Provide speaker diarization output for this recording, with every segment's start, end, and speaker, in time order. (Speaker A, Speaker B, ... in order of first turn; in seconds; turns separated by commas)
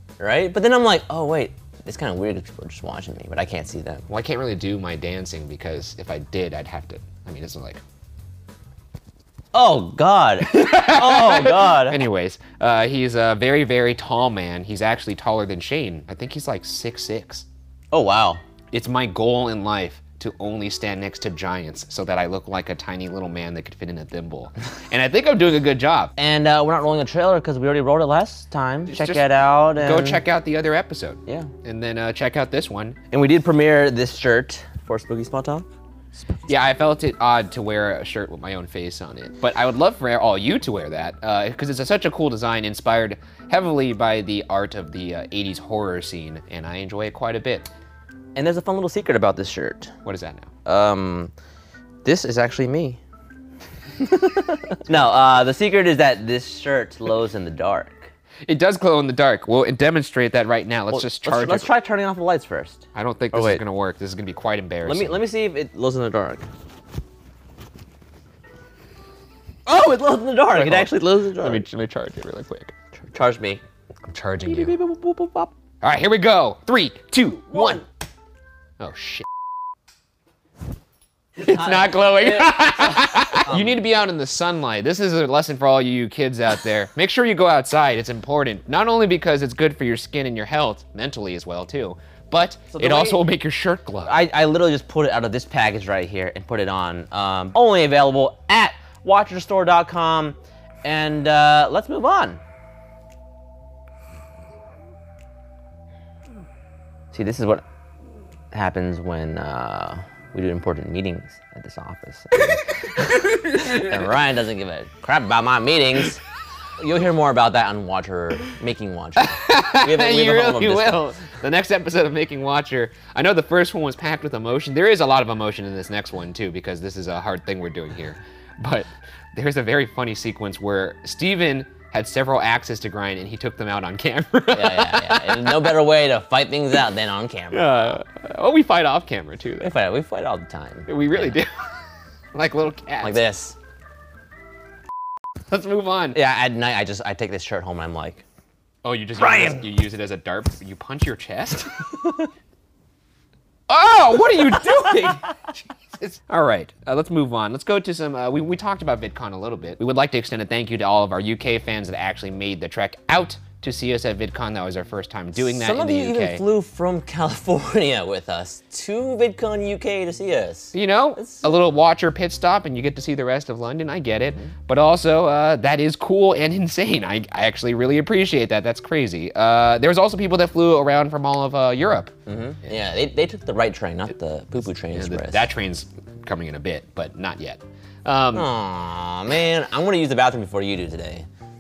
Speaker A: 0.2-4.1, Speaker B: 4.1-7.8, Speaker A: 9.5-12.0, Speaker B: 10.4-17.5, Speaker A: 17.9-18.4, Speaker B: 18.7-26.1, Speaker A: 26.2-30.2, Speaker B: 28.9-29.2, Speaker B: 29.8-33.0, Speaker A: 33.1-35.7, Speaker B: 36.5-47.7, Speaker A: 48.4-49.9, Speaker B: 50.0-50.5, Speaker A: 50.6-51.3, Speaker A: 52.0-53.0, Speaker A: 54.0-58.1, Speaker B: 58.5-61.7, Speaker A: 60.9-63.6, Speaker B: 62.9-65.2, Speaker A: 64.8-66.5, Speaker A: 69.7-71.6, Speaker B: 70.5-72.7, Speaker A: 73.0-73.6, Speaker B: 74.1-74.8, Speaker A: 74.5-75.5, Speaker B: 75.8-77.8, Speaker A: 77.5-77.8, Speaker B: 78.8-79.3, Speaker A: 81.4-83.8, Speaker B: 81.4-94.2, Speaker A: 92.7-93.2, Speaker A: 94.0-102.4, Speaker A: 107.1-107.6, Speaker A: 108.5-112.7, Speaker B: 112.8-114.0, Speaker A: 113.6-116.2, Speaker A: 116.8-121.0, Speaker B: 119.2-135.8, Speaker A: 134.5-138.0, Speaker B: 137.5-139.7, Speaker A: 139.6-141.4, Speaker B: 140.9-141.6, Speaker B: 142.3-143.2, Speaker A: 143.0-143.6, Speaker B: 145.5-146.2, Speaker A: 146.1-148.2, Speaker B: 148.8-151.7, Speaker A: 149.2-149.7, Speaker B: 153.7-166.4, Speaker A: 165.4-171.5, Speaker B: 170.7-182.1, Speaker A: 182.3-185.5, Speaker B: 184.9-188.5, Speaker A: 188.3-191.3